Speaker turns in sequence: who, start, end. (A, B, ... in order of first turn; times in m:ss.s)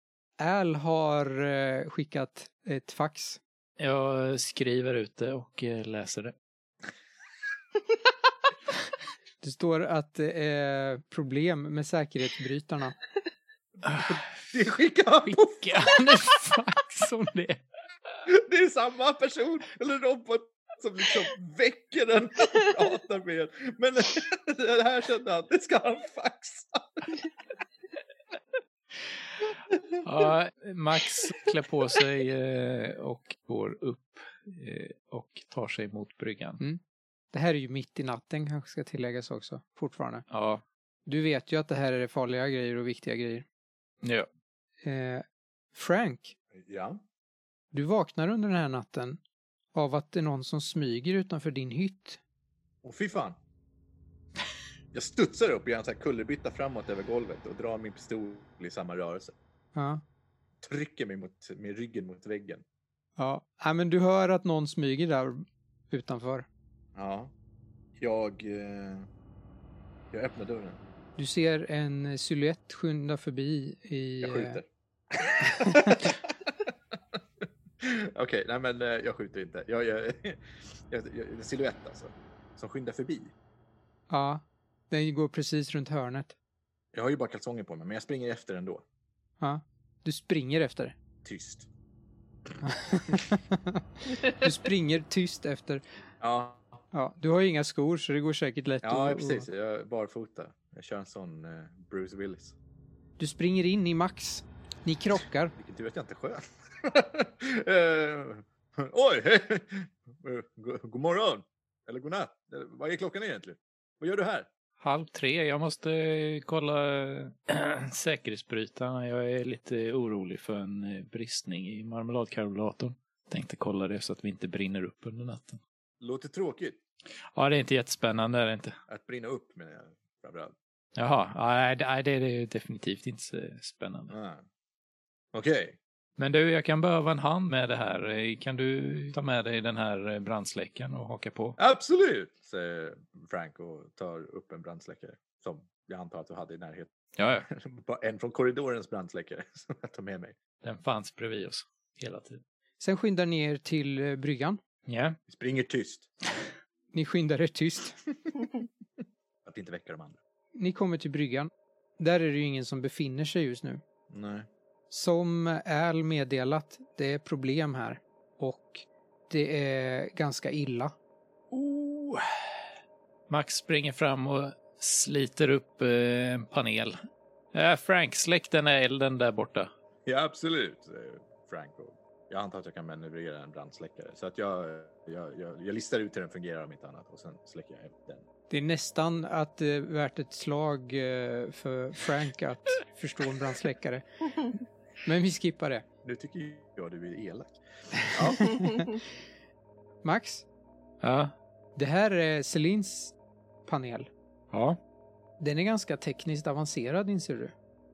0:00.4-0:03.4 A
0:03.8-0:06.3 B
0:09.4-0:13.0 A
0:13.8-0:14.2 B
0:13.9-0:15.8 C
0:15.2-0:17.6 B
0:18.3-0:27.0 C
0:30.0-0:36.6 B
0:37.3-0:40.2 A
0:40.3-0:40.6 B
0:41.0-0:43.4 A
0:44.0-0:44.3 B
0:44.8-0:46.3 A
0:46.5-0:47.0 C
0:47.7-0:49.2 A
0:49.7-0:52.2 A
0:52.8-0:53.4 C
0:54.9-0:59.3 C
0:59.7-1:00.0 A
1:00.6-1:02.6 C
1:03.2-1:06.5 A
1:07.0-1:07.3 C
1:08.0-1:09.1 C
1:10.1-1:10.8 C
1:11.2-1:14.6 A
1:14.2-1:16.3 C
1:15.6-1:16.0 A
1:17.8-1:23.3 C
1:24.1-1:26.3 A
1:26.9-1:28.8 C
1:29.4-1:30.9 A
1:31.2-1:31.7 C
1:32.7-1:35.8 A
1:36.2-1:36.8 C
1:36.9-1:39.4 A
1:38.8-1:42.5 C
1:43.2-1:45.5 A
1:45.6-1:54.5 C
1:54.8-2:05.6 B
2:06.0-2:06.8 C
2:07.3-2:08.7 B
2:08.9-2:10.5 C
2:11.0-2:14.1 B
2:14.1-2:14.4 C
2:15.3-2:15.8 C
2:16.2-2:21.6 B
2:21.6-2:26.9 C
2:27.2-2:27.5 B
2:27.5-2:30.3 C
2:30.6-2:32.4 B
2:32.8-2:34.6 A
2:34.9-2:35.2 B
2:35.3-2:36.1 C
2:36.9-2:38.0 A
2:39.4-2:40.2 C
2:40.6-2:43.8 A
2:44.1-2:44.5 C
2:44.9-2:50.9 A
2:51.5-2:52.5 B
2:53.3-2:57.0 B
2:57.5-2:59.7 B
3:00.1-3:08.2 C
3:08.5-3:14.3 A
3:15.0-3:15.8 A
3:16.0-3:18.5 C
3:20.0-3:20.4 A
3:21.0-3:21.3 B
3:21.8-3:23.1 A
3:23.6-3:24.1 A
3:24.5-3:24.8 B
3:25.4-3:27.5 A